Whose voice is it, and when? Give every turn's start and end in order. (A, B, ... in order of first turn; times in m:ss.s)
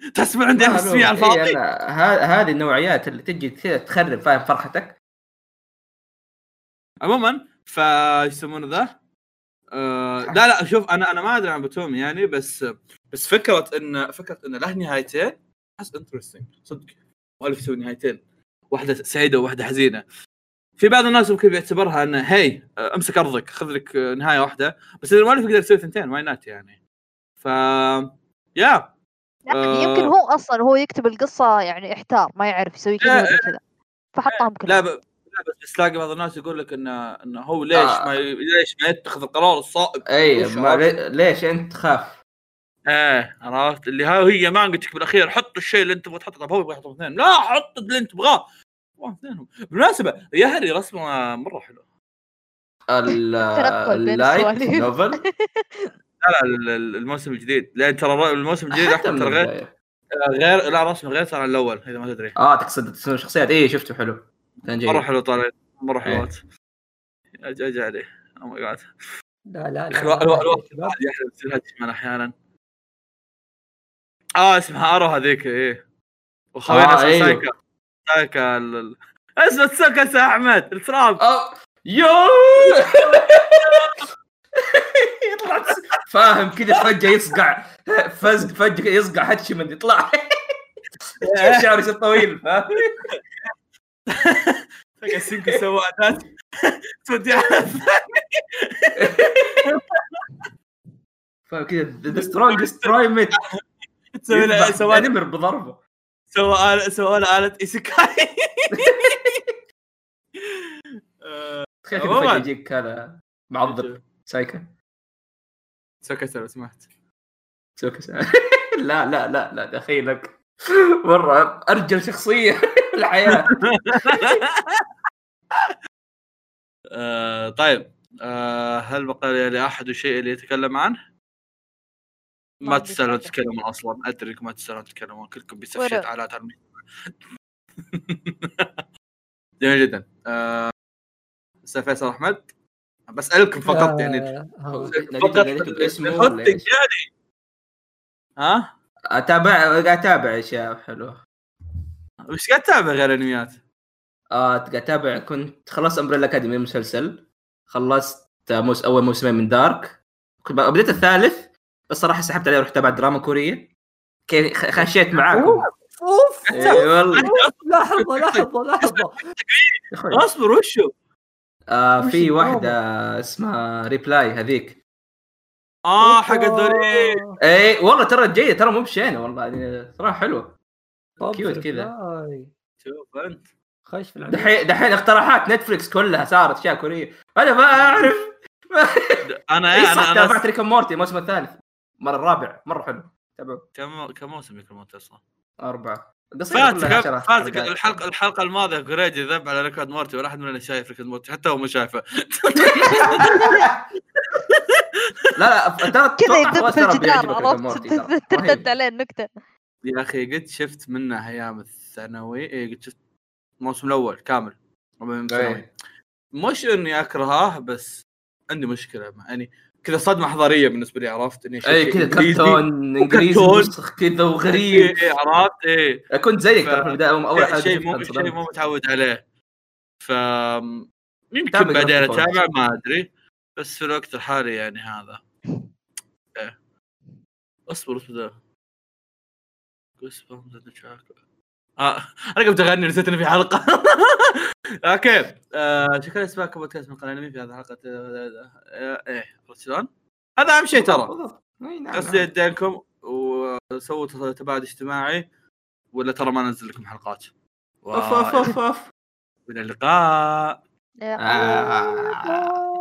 0:00.1-0:01.6 A
0:00.6-0:05.0 B
0:07.0-0:09.0 A
0:09.8-0:18.2 A
0:18.7-0:20.0 A
0:20.8-0:26.8 A
0:27.4-0:28.9 A
0:29.5-0:33.6 C
0:29.5-0:30.1 A
0:33.0-0:33.5 A
0:34.1-0:34.8 C
0:34.3-0:40.9 A
0:37.7-0:38.1 B
0:40.1-0:42.2 B
0:42.9-0:48.4 A
0:49.0-0:51.8 A
0:52.9-0:55.2 B
0:53.6-0:55.9 C
0:56.2-0:59.5 A
0:58.7-0:59.7 B
1:00.2-1:02.4 A
1:02.4-1:05.0 B
1:04.9-1:06.4 A
1:07.4-1:08.9 A
1:09.5-1:11.0 D
1:09.9-1:12.3 A
1:14.4-1:15.8 A
1:16.6-1:17.5 A
1:16.7-1:17.4 B
1:18.1-1:21.2 A
1:21.2-1:23.8 B
1:23.6-1:23.9 A
1:24.6-1:30.2 B
1:31.2-1:31.7 A
1:31.3-1:32.9 B
1:34.1-1:40.5 A
1:35.2-1:35.6 B
1:39.0-1:39.6 B
1:41.5-1:43.4 B
1:42.1-1:43.5 A
1:44.2-1:45.1 A
1:44.3-1:45.8 B
1:46.3-1:49.4 A
1:48.7-1:49.3 B
1:50.4-1:50.6 A
1:51.2-1:52.5 A
1:51.8-1:54.7 B
1:53.6-1:54.0 A
1:56.0-1:56.8 A
1:57.8-2:03.6 B
2:03.3-2:04.8 A
2:04.1-2:04.4 B
2:06.9-2:11.0 A
2:12.6-2:16.6 A
2:12.6-2:13.3 C
2:15.8-2:16.1 C
2:17.9-2:18.7 A
2:19.6-2:20.7 A
2:21.6-2:22.4 A
2:23.1-2:24.3 A
2:23.7-2:24.9 D
2:24.7-2:26.7 B
2:24.9-2:27.1 A
2:28.4-2:28.7 A
2:29.1-2:31.2 B
2:32.3-2:33.6 A
2:34.3-2:43.7 B
2:44.3-2:45.6 B
2:45.3-2:49.3 D
2:46.5-2:47.3 B
2:46.5-2:50.9 A
2:49.9-2:50.2 B
2:51.7-2:54.8 B
2:52.0-2:52.8 D
2:55.9-2:57.2 A
2:56.0-2:57.4 D
2:57.4-3:00.6 B
3:01.2-3:02.5 D
3:01.3-3:01.9 B
3:02.8-3:03.4 A
3:03.9-3:04.6 D
3:04.3-3:09.2 B
3:09.5-3:10.4 A
3:09.7-3:13.6 B
3:13.8-3:15.2 A
3:15.6-3:18.0 B
3:16.5-3:23.6 A
3:22.6-3:23.7 B
3:24.3-3:24.8 A
3:25.4-3:28.7 B
3:26.2-3:29.3 C
3:29.8-3:33.0 A
3:33.6-3:35.7 A
3:35.3-3:35.7 B
3:36.4-3:43.7 A
3:41.6-3:45.0 B
3:44.5-3:46.0 A
3:46.1-3:48.4 B
3:46.6-3:49.2 A
3:50.0-3:55.2 A
3:51.5-3:52.4 B
3:57.7-3:58.3 A
4:00.0-4:01.1 A
4:01.8-4:09.9 A
4:10.4-4:11.1 A
4:10.7-4:12.3 B
4:11.9-4:15.3 A
4:15.9-4:17.3 A
4:17.8-4:18.6 A
4:17.9-4:18.9 B
4:19.5-4:20.6 A
4:21.0-4:22.3 C
4:21.2-4:22.6 B